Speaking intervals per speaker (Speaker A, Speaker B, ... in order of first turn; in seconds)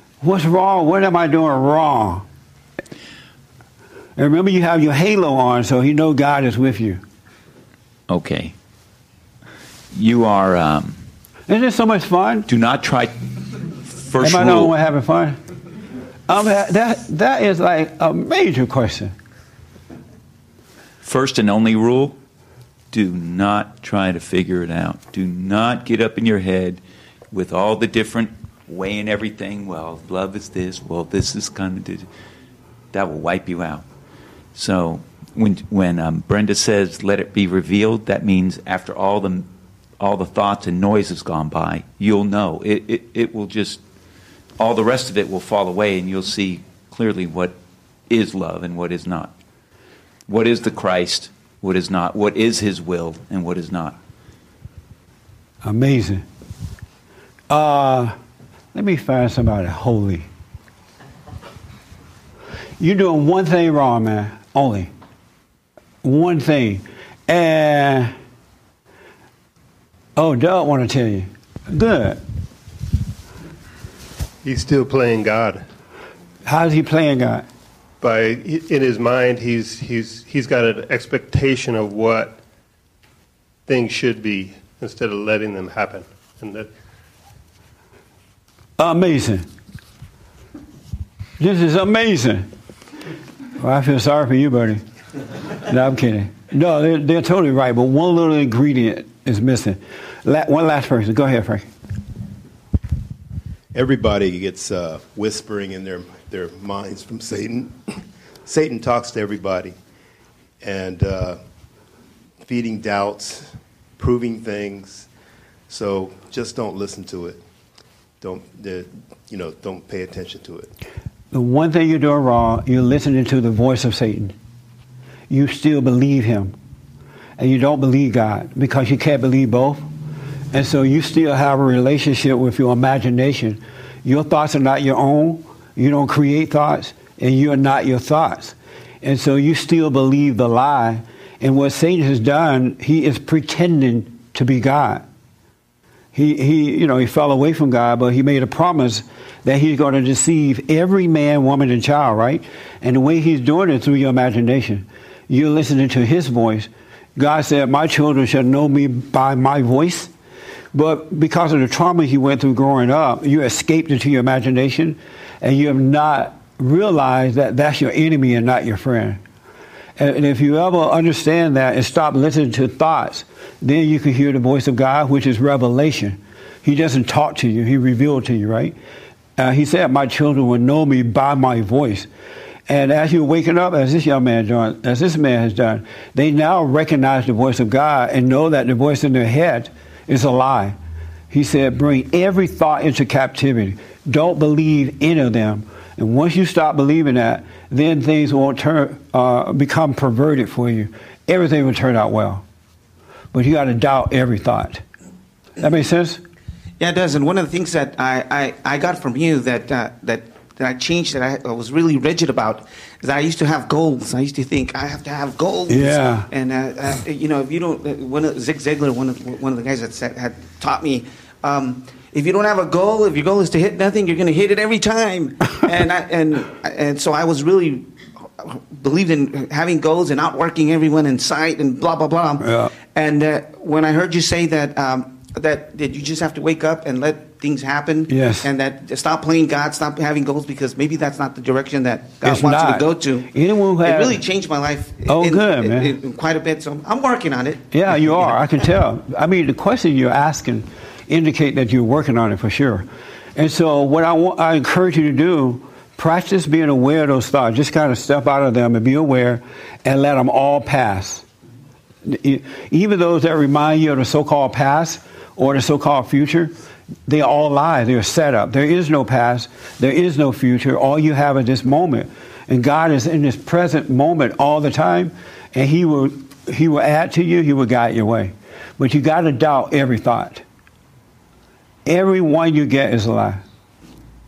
Speaker A: 0.2-2.2, 4.2-7.0, 11.5-12.5, 14.2-15.4, 16.3-19.1, 55.6-56.2, 57.5-58.1, 58.7-60.3, 62.8-64.9, 66.0-68.1, 70.2-72.2, 76.4-77.4, 88.8-89.5, 91.4-92.5, 93.6-94.8, 95.7-101.7, 121.3-124.3, 125.3-126.5, 127.4-129.9, 130.5-145.0, 146.1-160.1, 160.7-169.2, 170.0-178.8, 179.4-182.1, 182.7-190.8, 191.3-202.4, 203.3-204.8, 205.6-206.2, 215.7-216.3, 232.4-232.7, 238.1-238.5, 242.2-244.2, 245.1-245.9, 247.7-261.2, 262.0-266.5, 267.1-280.4, 281.9-283.4
Speaker B: 8.1-8.5, 9.9-11.0, 12.5-13.1, 14.0-14.7, 21.0-22.1, 22.9-26.8, 27.3-32.1, 32.9-33.8, 34.5-39.5, 40.0-43.8, 44.6-47.5, 48.1-49.3, 50.3-54.0
Speaker C: 74.4-75.6, 78.0-82.4, 83.7-86.7
Speaker D: 103.7-107.8, 108.4-109.7, 110.6-111.4, 112.4-115.1, 115.7-117.4, 118.2-120.7
Speaker E: 206.8-227.9, 228.4-248.4